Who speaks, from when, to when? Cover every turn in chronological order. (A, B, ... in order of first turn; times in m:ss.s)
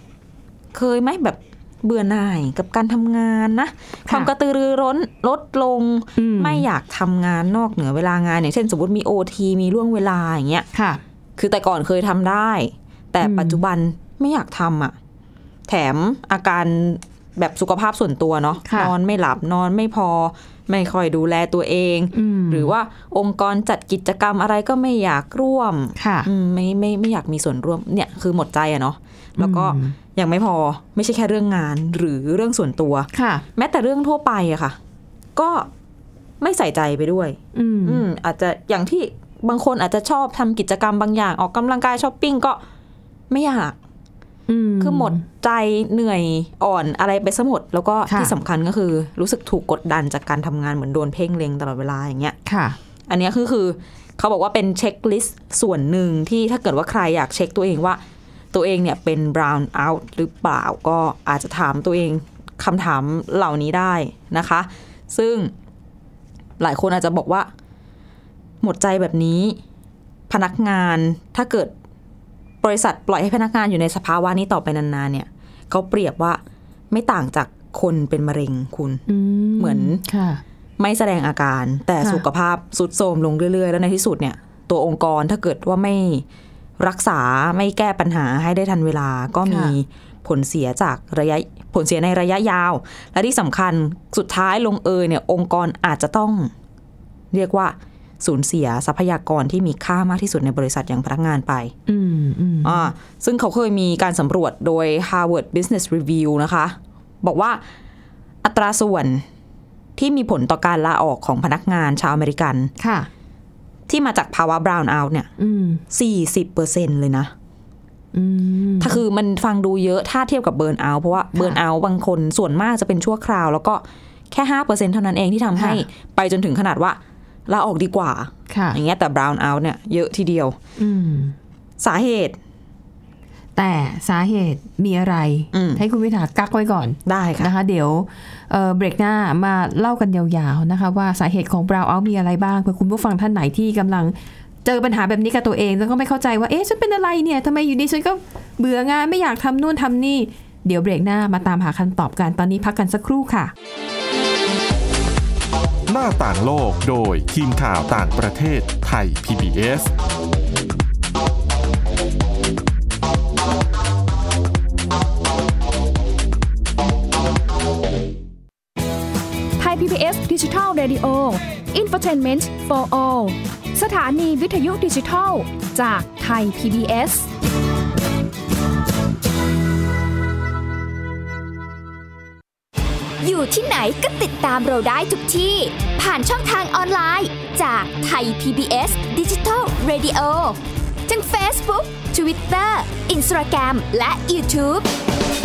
0:00.7-0:10.6 A
0:06.2-0:06.6 B
0:10.7-0:11.0 B
0:11.4-0:15.0 A
0:13.2-0:13.6 B
0:15.7-0:34.8 A
0:18.6-0:18.9 B
0:22.1-0:22.7 B
0:26.0-0:26.3 B
0:29.4-0:30.0 B
0:33.1-0:33.4 B
0:35.4-0:35.7 A
0:36.4-0:42.6 A
0:37.5-0:38.0 B
0:43.3-0:43.8 A
0:44.5-0:45.2 B
0:44.8-0:52.4 A
0:48.1-0:48.3 B
0:52.4-0:52.8 B
0:53.1-0:58.0 A
0:58.5-1:05.5 A
1:06.6-1:07.5 A
1:08.6-1:09.6 A
1:10.3-1:11.7 A
1:12.6-1:19.0 A
1:19.1-1:20.4 B
1:19.6-1:20.0 A
1:20.8-1:26.2 A
1:26.8-1:36.5 A
1:29.4-1:29.7 B
1:37.3-1:41.7 A
1:41.9-1:42.9 B
1:42.6-1:47.6 A
1:48.4-1:49.2 A
1:50.0-1:52.7 A
1:52.8-1:53.1 B
1:53.9-1:55.3 A
1:55.4-1:55.8 B
1:55.9-1:57.3 A
1:58.1-1:59.0 B
1:58.8-2:10.6 A
2:05.6-2:05.8 B
2:08.5-2:08.8 B
2:10.8-2:11.4 B
2:11.8-2:12.4 A
2:13.6-2:33.5 B
2:15.5-2:15.8 A
2:17.0-2:17.5 A
2:35.9-2:39.9 C
2:49.6-2:57.3 D
3:03.2-3:14.9 E